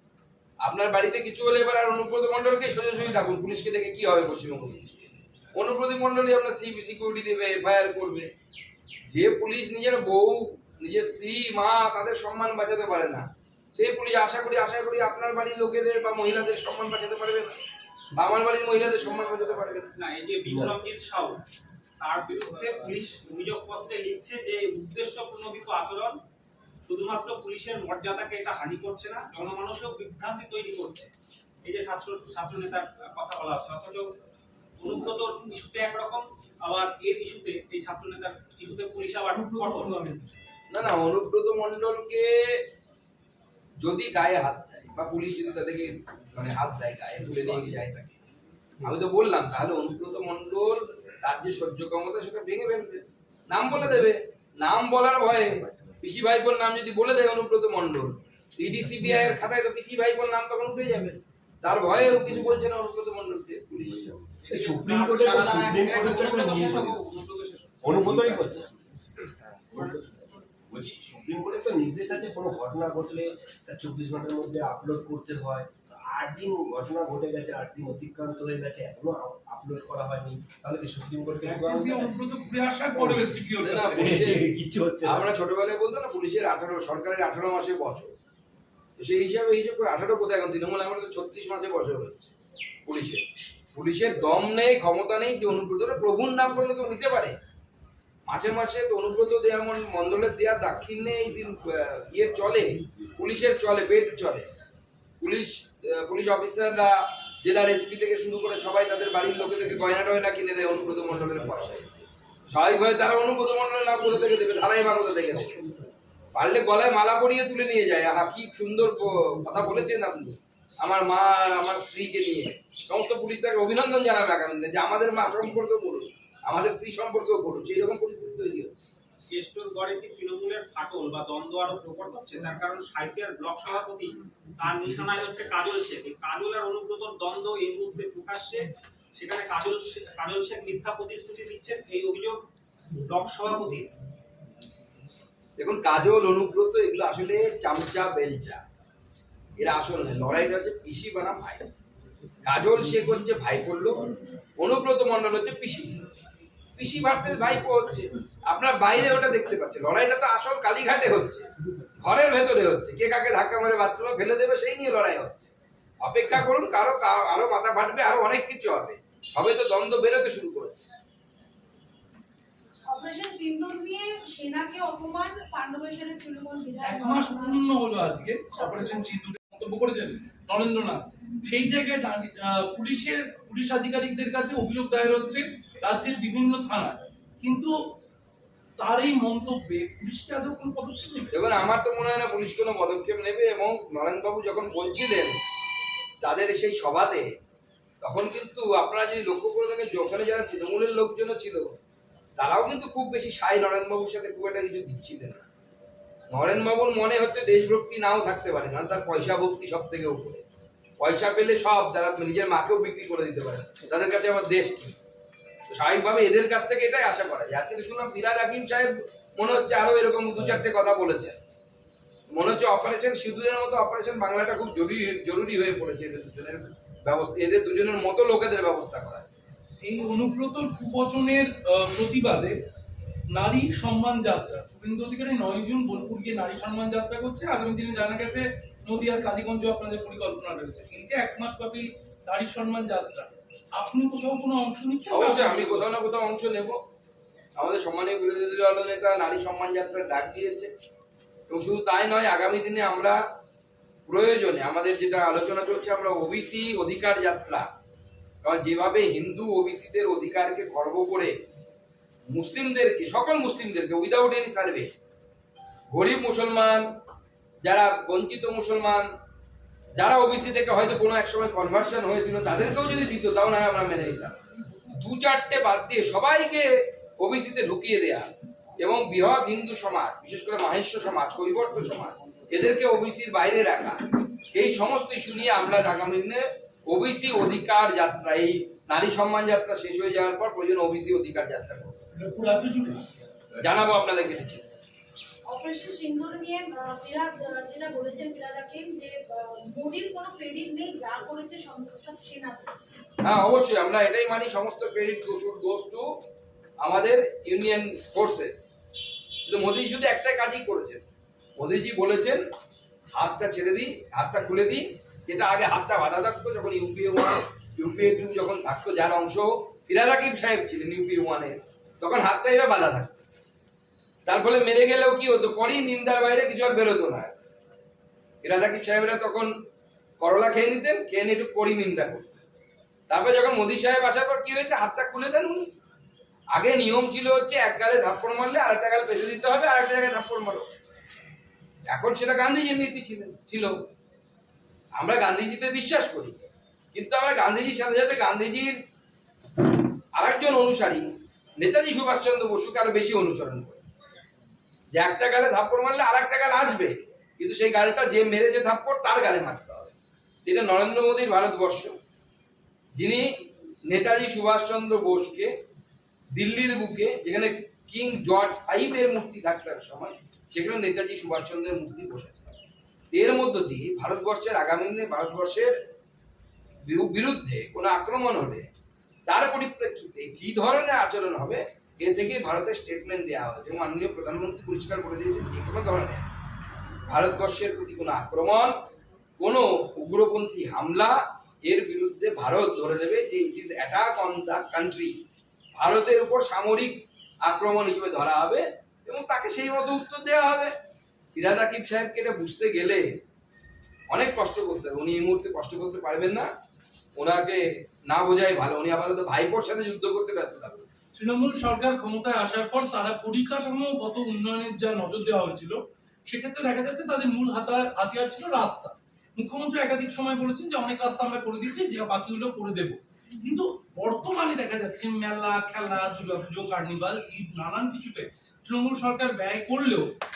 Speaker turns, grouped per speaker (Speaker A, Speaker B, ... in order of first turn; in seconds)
Speaker A: 0.6-8.3, 9.1-17.5, 18.1-19.9, 40.7-42.6, 43.8-48.2, 48.8-64.1, 83.6-84.5, 85.0-88.1, 89.0-92.3, 92.8-97.4, 98.3-104.5, 105.2-111.9, 112.5-115.5, 116.3-128.8, 145.6-148.6, 149.6-151.6, 152.4-154.0, 154.6-156.0, 156.8-161.4, 162.0-165.5, 166.0-170.8, 191.3-195.4, 196.2-197.3, 198.0-201.8, 202.4-205.4, 206.3-210.4, 211.0-214.9, 215.7-221.4, 222.3-229.4, 245.1-246.8, 247.6-250.7, 251.5-253.2, 254.1-257.7, 258.4-261.3, 262.3-264.9, 265.9-266.9, 267.6-269.1, 269.9-274.4, 274.9-284.0, 284.5-291.9, 293.6-294.7, 303.2-306.0, 306.8-308.6, 309.4-311.0, 311.6-312.4, 313.1-323.2, 324.2-327.4, 328.4-329.5, 330.2-332.3, 333.1-335.6, 336.5-340.7, 341.9-343.7, 344.9-348.7, 350.1-351.1, 351.6-353.8, 354.9-359.9, 360.4-361.9, 362.9-363.3, 363.9-365.5, 366.3-372.6, 373.1-375.7, 376.8-378.7, 379.3-386.2, 387.1-388.7, 389.4-395.1, 395.8-400.7, 401.3-403.0, 404.1-406.5, 407.1-410.9
Speaker B: 19.9-21.4, 22.0-26.2, 26.9-31.1, 31.6-34.1, 34.8-40.0, 64.4-68.5, 129.3-142.4, 143.0-143.9
Speaker C: 20.5-20.7, 64.5-67.0, 67.8-68.7, 69.7-82.2, 82.9-83.3, 83.9-85.3
Speaker D: 39.3-40.3, 81.4-84.1, 176.8-187.7, 188.8-191.3, 229.8-232.6, 233.3-245.9, 292.1-293.0, 411.1-430.1
Speaker E: 172.8-177.7, 178.6-178.9, 295.4-303.0